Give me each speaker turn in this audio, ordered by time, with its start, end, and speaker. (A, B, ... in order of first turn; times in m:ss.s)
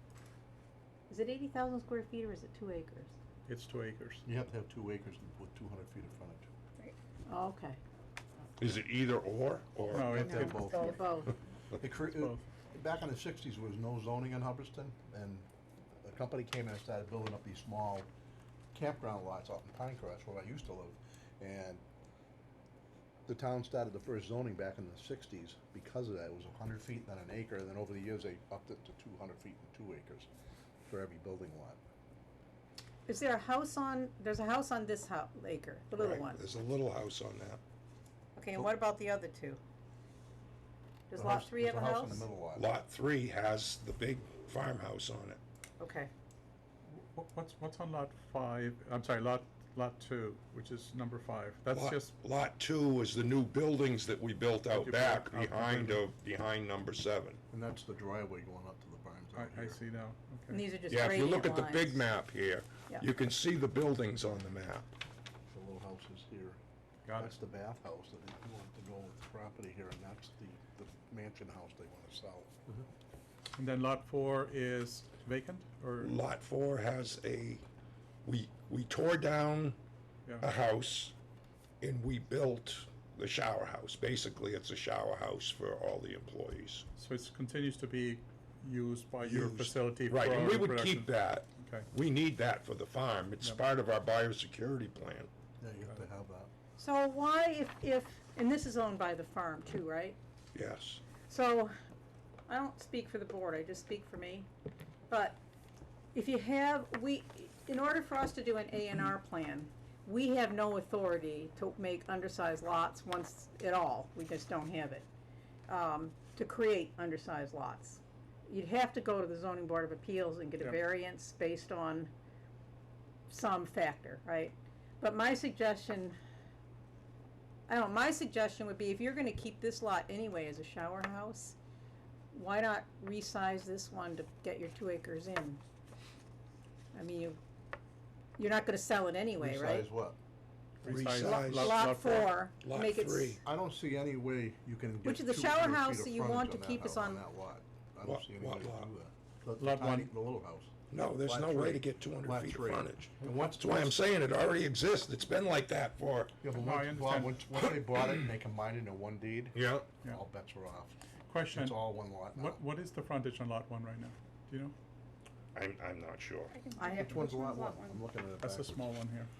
0:01.1-0:03.2 A
0:03.5-0:04.2 B
0:04.2-0:06.5 C
0:06.8-0:07.8 A
0:08.6-0:10.2 D
0:09.9-0:10.8 B
0:09.9-0:15.5 C
0:10.2-0:11.3 A
0:12.0-0:12.4 B
0:16.0-0:18.1 C
0:18.7-0:21.8 C
0:23.3-0:30.3 C
0:30.8-0:31.8 C
0:33.1-0:36.4 A
0:35.9-0:37.6 D
0:38.4-0:39.6 A
0:41.1-0:42.2 A
0:41.1-0:42.7 C
0:42.6-0:45.4 D
0:45.8-0:46.1 A
0:46.9-0:52.1 B
0:51.7-0:57.4 D
0:54.7-0:56.0 B
0:57.5-0:59.8 C
0:59.3-1:00.6 B
1:00.5-1:02.1 A
1:00.9-1:04.9 D
1:05.5-1:06.6 C
1:07.1-1:07.3 B
1:07.2-1:12.8 C
1:13.6-1:16.1 B
1:16.0-1:17.6 D
1:18.2-1:19.8 D
1:20.4-1:21.2 D
1:21.8-1:26.8 D
1:27.0-1:31.9 B
1:29.2-1:35.3 D
1:35.6-1:36.5 C
1:36.8-1:40.2 A
1:40.5-1:41.0 D
1:41.3-1:41.7 A
1:42.5-1:44.5 A
1:45.1-1:45.4 A
1:46.1-1:55.1 A
1:55.7-2:02.1 A
2:03.3-2:06.2 A
2:07.7-2:11.6 A
2:12.3-2:15.6 A
2:16.9-2:17.4 A
2:18.4-2:19.9 A
2:19.4-2:20.2 C
2:20.8-2:22.3 B
2:20.8-2:21.9 D
2:21.2-2:23.4 A
2:22.6-2:23.4 D
2:23.4-2:34.0 C
2:25.0-2:27.2 A
2:28.0-2:28.9 D
2:29.6-2:30.1 B
2:30.9-2:36.4 D
2:36.4-2:41.0 C
2:36.5-2:37.4 B
2:39.5-2:39.9 D
2:41.3-2:44.7 B
2:41.5-2:42.6 C
2:45.5-2:46.6 D
2:46.7-2:48.0 A
2:46.9-2:48.9 C
2:48.4-2:49.3 B